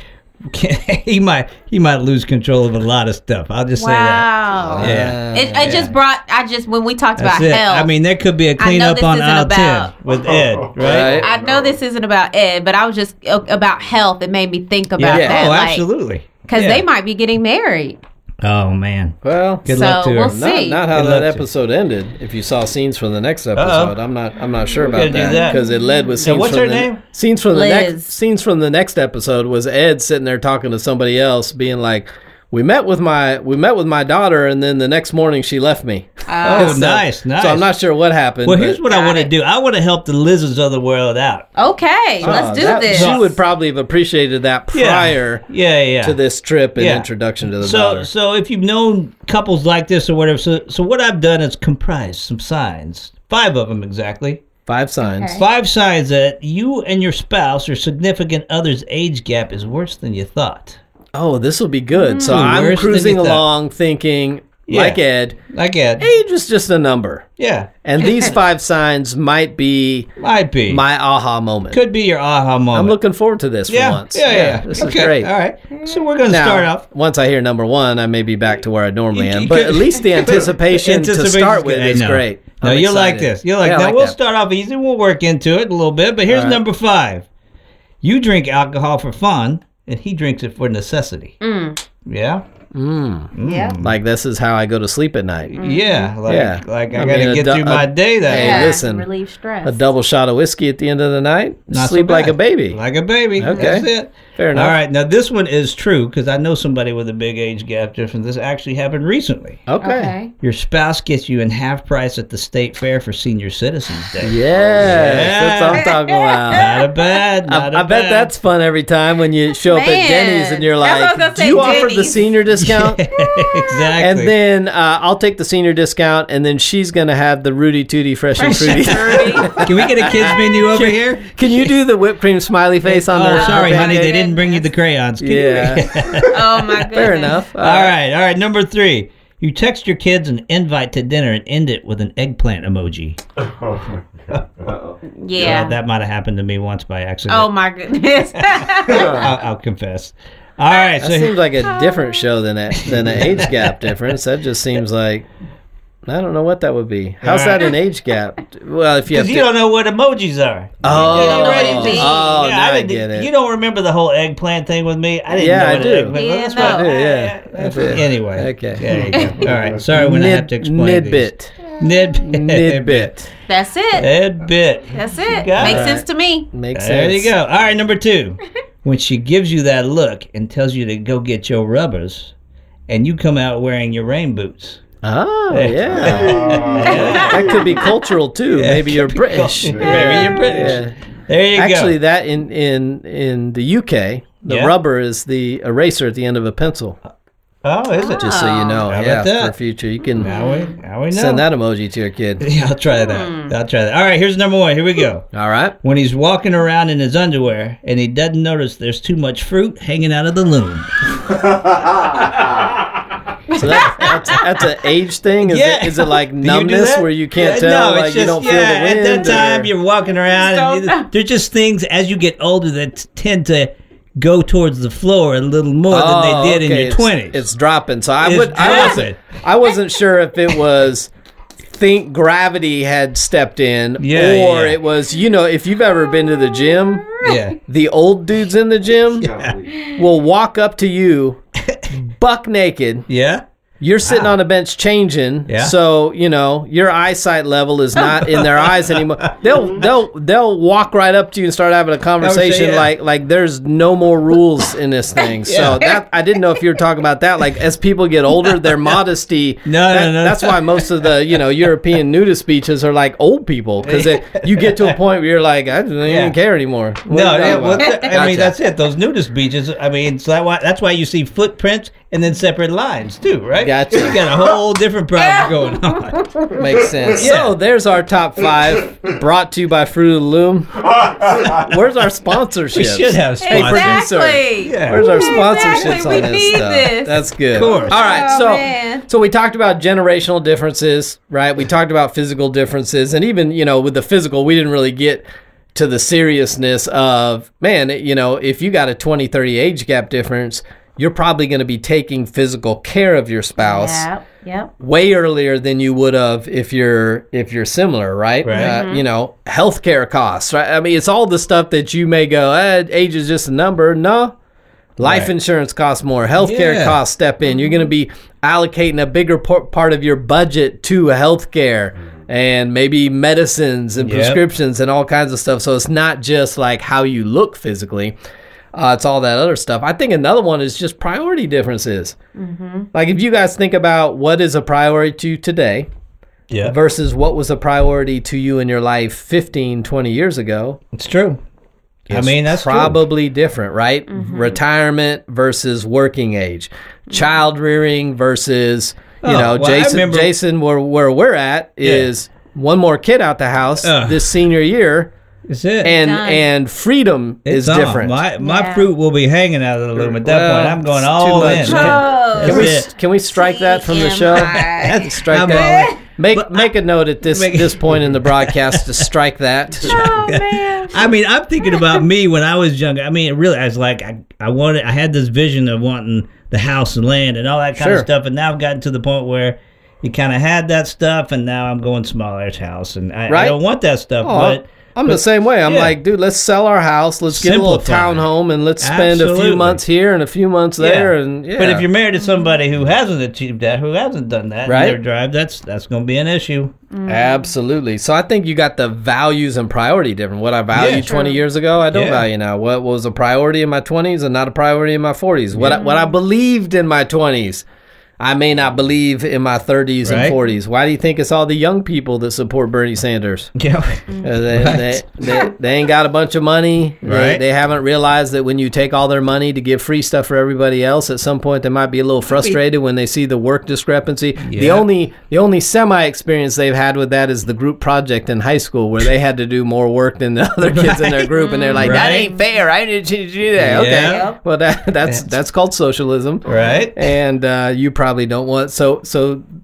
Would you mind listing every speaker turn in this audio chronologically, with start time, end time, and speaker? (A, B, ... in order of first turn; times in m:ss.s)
0:00.4-0:04.3 A
0:03.8-0:07.9 B
0:04.7-0:05.8 C
0:04.8-0:06.0 A
0:07.2-0:11.3 A
0:08.6-0:09.9 B
0:10.8-0:11.3 C
0:10.8-0:15.9 B
0:15.0-0:16.9 A
0:15.1-0:15.5 C
0:16.5-0:18.0 B
0:18.4-0:20.4 A
0:19.2-0:38.8 C
0:19.7-0:20.8 B
0:20.9-0:21.4 A
0:23.6-0:24.0 A
0:24.8-0:25.6 A
0:25.1-0:26.2 B
0:26.2-0:27.0 A
0:27.5-0:28.1 B
0:36.3-0:36.8 B
0:36.4-0:37.7 A
0:38.4-0:41.5 A
0:38.9-0:39.3 B
0:41.6-0:43.3 B
0:42.2-0:43.3 A
0:42.2-0:45.4 C
0:44.7-0:46.2 A
0:46.0-0:48.1 C
0:46.8-0:47.1 A
0:47.6-0:54.4 A
0:54.7-0:55.4 C
0:55.0-0:55.4 B
0:55.3-1:00.8 A
1:01.1-1:05.4 C
1:01.9-1:02.4 B
1:02.2-1:03.4 A
1:04.7-1:06.1 A
1:06.0-1:07.3 C
1:07.4-1:07.7 A
1:07.8-1:10.1 C
1:10.2-1:10.8 A
1:10.7-1:11.8 C
1:11.7-1:13.0 A
1:12.7-1:15.3 C
1:13.7-1:16.8 A
1:15.7-1:16.0 B
1:16.2-1:24.2 C
1:19.1-1:27.3 A
1:26.3-1:26.6 C
1:28.0-1:31.4 A
1:31.4-1:31.8 B
1:32.0-1:32.4 A
1:32.7-1:35.6 C
1:33.3-1:34.0 A
1:33.4-1:33.8 B
1:35.5-1:38.8 A
1:35.6-1:36.1 B
1:36.2-1:39.1 C
1:38.3-1:39.8 B
1:39.6-1:42.8 C
1:41.7-1:49.6 A
1:43.4-1:44.8 C
1:49.7-1:50.1 C
1:49.8-1:50.3 B
1:50.4-1:55.9 A
1:54.2-1:56.7 C
1:55.8-1:56.8 B
1:56.5-1:58.3 A
1:57.5-2:03.0 C
1:59.6-2:02.2 B
2:02.6-2:04.3 A
2:04.0-2:14.3 C
2:08.4-2:09.6 B
2:08.4-2:11.7 A
2:12.8-2:16.9 A
2:13.3-2:14.7 B
2:15.2-2:16.2 C
2:16.3-2:17.3 B
2:16.9-2:18.0 C
2:17.6-2:23.2 A
2:25.1-2:25.8 B
2:25.4-2:27.5 A
2:27.3-2:29.3 B
2:28.5-2:31.4 A
2:29.0-2:29.3 C
2:31.0-2:35.2 C
2:31.6-2:32.2 B
2:32.8-2:34.2 A
2:36.1-2:39.5 C
2:37.2-2:37.8 A
2:39.1-2:53.1 A
2:40.8-2:43.3 C
2:41.0-2:42.4 B
2:45.3-2:51.6 C
2:46.1-2:46.9 B
2:49.1-2:49.4 B
2:52.2-2:53.3 C
2:53.5-2:54.1 B
2:54.0-2:56.0 A
2:54.9-2:56.5 B
2:55.6-2:57.3 C
2:56.7-3:02.3 A
3:02.9-3:04.8 A
3:05.0-3:10.9 C
3:05.5-3:07.7 A
3:06.9-3:07.7 B
3:08.5-3:12.0 A
3:11.6-3:17.0 C
3:14.4-3:14.7 A
3:17.6-3:19.5 A
3:18.0-3:18.8 B
3:18.2-3:20.4 C
3:20.2-3:20.8 B
3:20.2-3:21.4 A
3:21.1-3:22.4 C
3:22.4-3:25.3 A
3:23.0-3:23.5 B
3:25.3-3:25.8 C
3:25.8-3:32.7 A
3:33.5-3:34.4 B
3:33.6-3:39.7 C
3:33.7-3:34.5 A
3:35.4-3:47.5 A
3:40.4-3:41.1 B
3:45.9-3:51.1 C
3:48.2-3:49.2 A
3:51.7-3:59.3 C
3:54.0-3:54.8 A
3:56.7-3:57.5 B
3:57.2-3:57.6 A
3:59.2-3:59.7 A
3:59.8-4:01.4 C
4:01.6-4:01.9 A
4:02.1-4:03.1 C
4:03.1-4:03.4 A
4:03.8-4:28.6 C
4:04.1-4:04.4 A
4:05.5-4:05.7 A
4:08.2-4:09.0 A
4:12.2-4:12.9 A
4:15.4-4:15.9 A
4:19.7-4:21.1 A
4:23.8-4:25.0 A
4:26.0-4:26.4 A
4:27.1-4:36.3 A
4:27.8-4:28.1 B
4:33.6-4:34.2 C
4:35.2-4:36.7 B
4:36.5-5:04.1 C
4:37.1-4:37.6 A
4:42.7-4:44.1 A
4:43.4-4:47.2 B
4:44.6-4:46.2 A
4:47.5-4:48.0 A
4:47.7-4:49.1 B
5:03.6-5:04.7 B
5:04.8-5:14.3 C
5:08.4-5:08.8 A
5:08.5-5:09.0 B
5:15.0-5:28.1 C
5:15.0-5:15.3 A
5:16.4-5:17.0 A
5:17.5-5:17.8 B
5:24.0-5:24.4 A
5:28.7-5:32.2 C
5:32.4-5:32.9 B
5:32.9-5:35.9 C
5:36.5-5:36.8 A
5:36.6-5:40.8 C
5:40.9-5:41.4 A
5:42.1-5:55.1 C
5:42.1-5:43.0 A
5:44.1-5:44.6 B
5:49.2-5:50.4 A
5:51.8-5:52.1 A
5:53.8-5:54.4 A
5:55.5-5:56.0 A
5:55.8-5:58.2 C
5:55.9-5:56.4 B
5:57.5-6:02.9 A
5:58.4-5:58.9 B
6:00.0-6:10.1 C
6:01.4-6:06.0 B
6:04.4-6:06.7 A
6:07.2-6:09.1 A
6:09.8-6:26.0 A
6:09.8-6:11.1 B
6:17.8-6:18.1 C
6:23.3-6:23.6 C
6:24.2-6:31.9 C
6:27.3-6:28.3 A
6:28.8-6:29.8 A
6:30.8-6:36.8 A
6:32.2-6:32.6 B
6:34.7-6:35.0 C
6:36.9-6:37.5 B
6:37.1-6:47.6 C
6:40.7-6:41.2 A
6:40.9-6:41.4 B
6:41.9-6:42.3 A
6:45.5-6:45.8 A
6:45.6-6:46.2 B
6:48.2-6:53.5 C
6:50.0-6:50.4 A
6:53.6-6:55.0 A
6:54.2-7:19.4 C
6:57.0-6:57.4 A
7:04.4-7:04.9 A
7:10.6-7:12.3 A
7:11.4-7:12.4 B
7:13.6-7:14.3 A
7:13.8-7:14.4 B
7:16.4-7:17.0 A